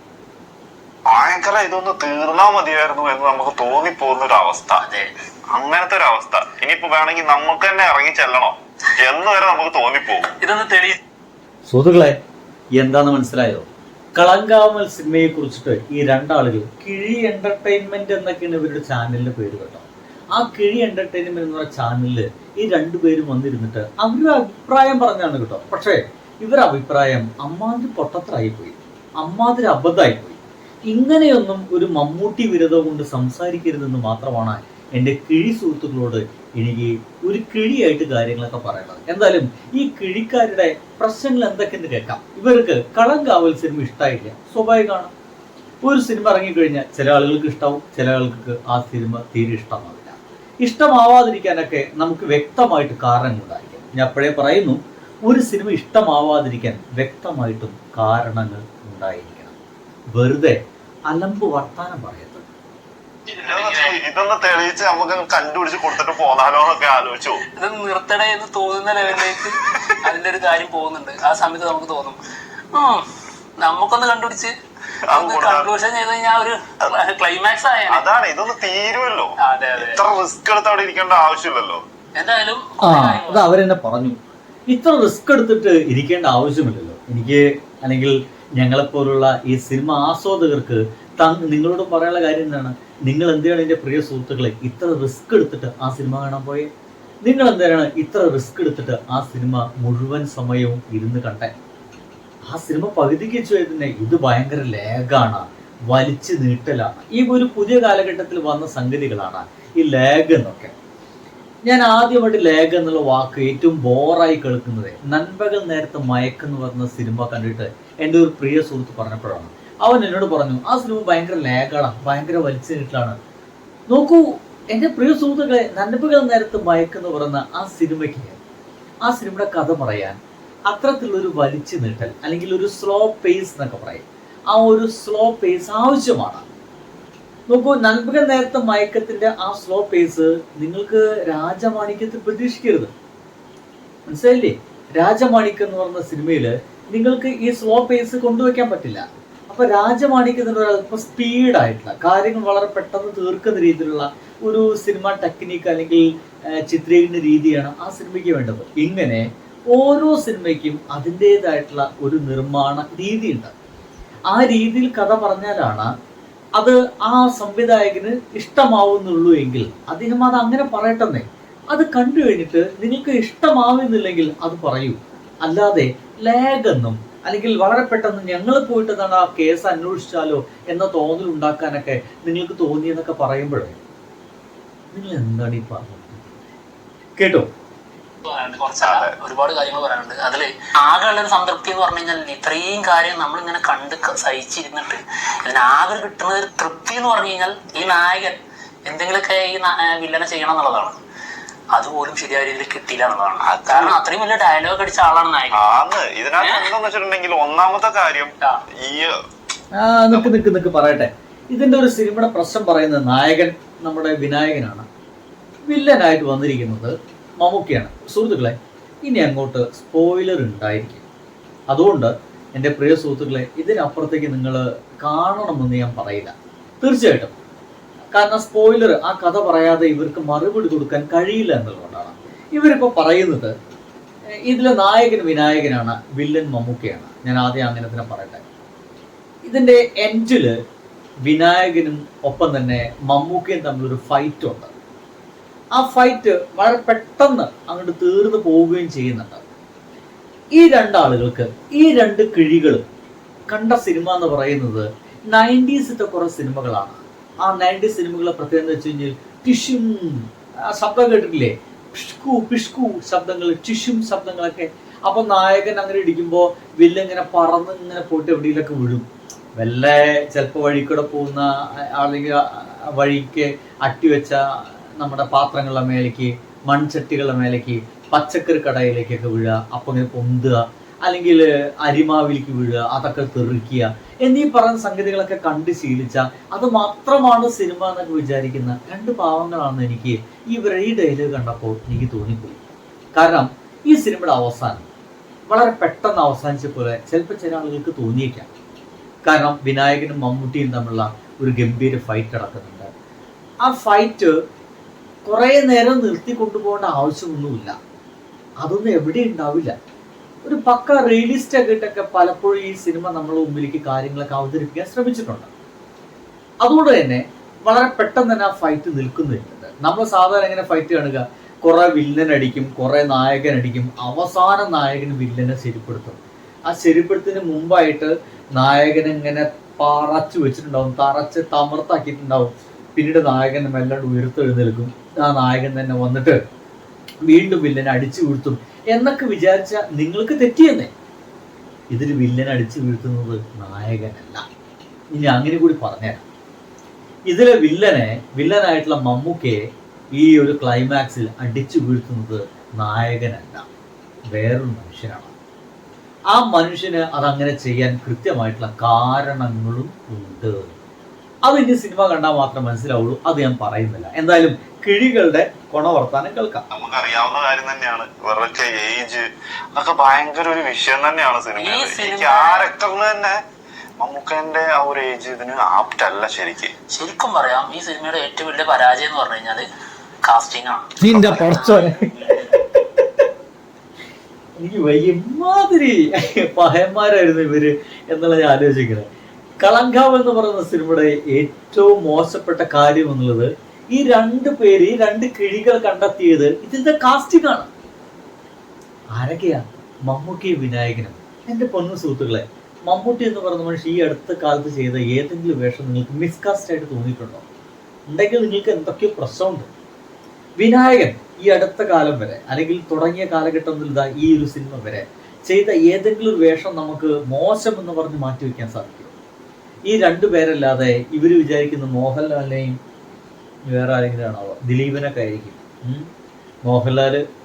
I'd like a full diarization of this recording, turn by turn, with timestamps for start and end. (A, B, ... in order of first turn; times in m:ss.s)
0:01.1-0:04.8 A
0:04.8-0:05.1 B
0:05.5-0:10.3 A
0:10.3-0:11.0 B
0:11.6-0:12.2 C
0:12.8-0:45.1 C
0:45.8-0:59.6 C
1:00.1-1:02.5 C
1:03.4-1:03.9 B
1:03.4-1:07.4 A
1:07.6-1:12.2 B
1:12.7-1:13.0 B
1:13.6-1:14.5 B
1:15.1-1:15.7 A
1:15.1-1:18.0 B
1:17.9-1:21.8 A
1:19.4-1:20.0 B
1:22.2-1:23.5 B
1:22.8-1:24.2 C
1:24.7-1:36.7 C
1:37.2-1:41.5 C
1:42.5-1:50.7 C
1:51.6-2:03.2 C
2:03.9-2:08.4 C
2:09.0-2:10.2 C
2:10.7-2:16.4 C
2:17.5-2:22.9 C
2:24.1-2:43.5 C
2:44.3-2:45.9 C
2:46.6-3:03.8 C
3:04.9-3:06.4 C
3:07.2-3:07.5 C
3:08.2-3:20.9 B
3:08.8-3:09.1 A
3:21.7-3:25.6 B
3:23.4-3:24.0 A
3:25.5-3:29.1 A
3:26.4-3:26.7 B
3:29.8-3:34.9 C
3:35.7-3:41.0 C
3:41.7-3:47.3 C
3:48.1-3:53.5 C
3:54.4-3:58.4 C
3:59.4-4:00.5 C
4:01.2-4:04.7 C
4:05.8-4:09.4 C
4:10.5-4:12.8 C
4:13.5-4:29.0 C
4:29.6-4:34.4 C
4:35.0-4:52.6 C
4:53.2-4:54.8 C
4:55.5-4:58.5 C
4:59.2-5:02.9 C
5:03.6-5:04.3 C
5:05.2-5:07.7 C
5:08.6-5:09.7 C
5:10.4-5:15.5 C
5:16.6-5:36.4 C
5:37.2-5:40.9 C
5:41.9-5:44.4 C
5:45.1-5:46.2 C
5:47.3-5:49.6 C
5:50.1-5:53.6 C
5:54.3-5:55.3 C
5:56.3-6:00.7 C
6:01.4-6:06.6 C
6:06.7-6:13.4 A
6:11.6-6:12.7 B
6:14.0-6:16.7 A
6:16.9-6:19.6 B
6:20.2-6:22.6 B
6:21.0-6:22.1 C
6:24.6-6:29.0 C
6:29.6-6:37.7 C
6:39.1-6:47.4 C
6:48.1-6:49.7 C
6:50.6-6:59.1 C
6:59.9-7:02.8 C
7:03.7-7:06.1 C
7:06.6-7:07.2 C